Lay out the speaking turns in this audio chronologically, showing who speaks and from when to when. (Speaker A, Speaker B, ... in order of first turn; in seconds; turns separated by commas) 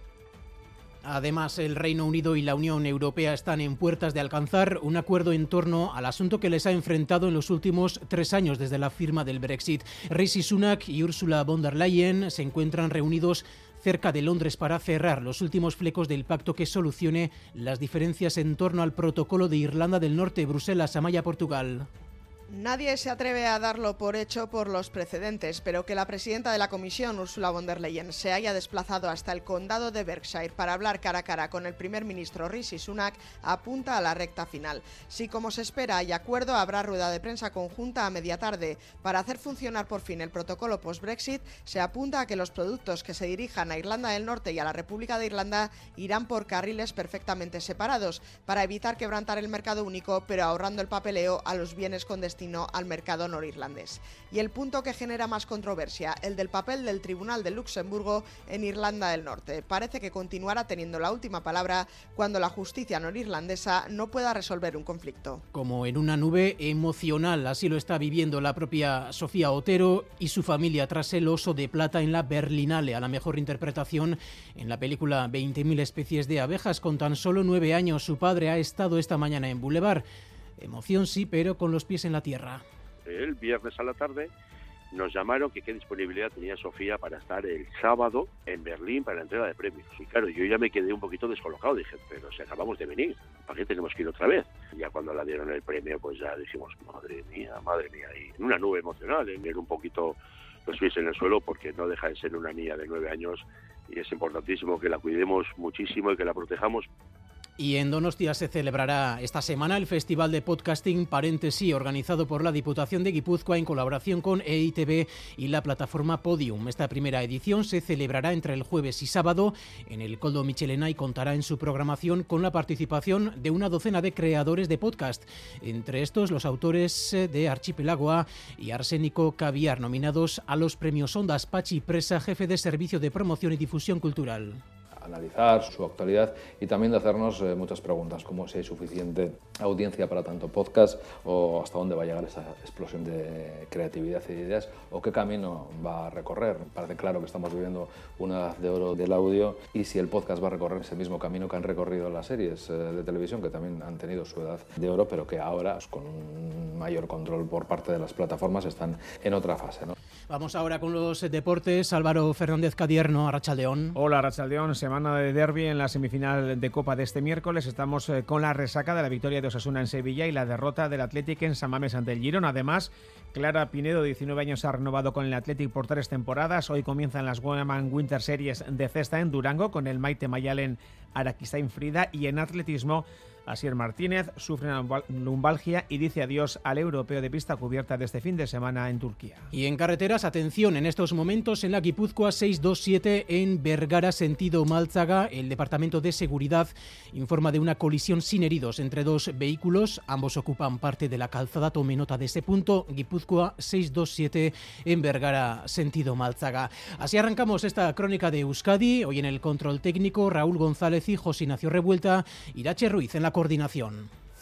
Speaker A: 1.0-21.9, Speaker B: 22.5-65.4, Speaker A: 65.5-80.0, Speaker A: 80.6-82.6, Speaker C: 83.0-84.3, Speaker C: 84.9-106.9, Speaker A: 107.6-134.6, Speaker D: 135.0-159.9, Speaker A: 160.3-164.0, Speaker E: 163.9-189.5, Speaker A: 189.5-214.1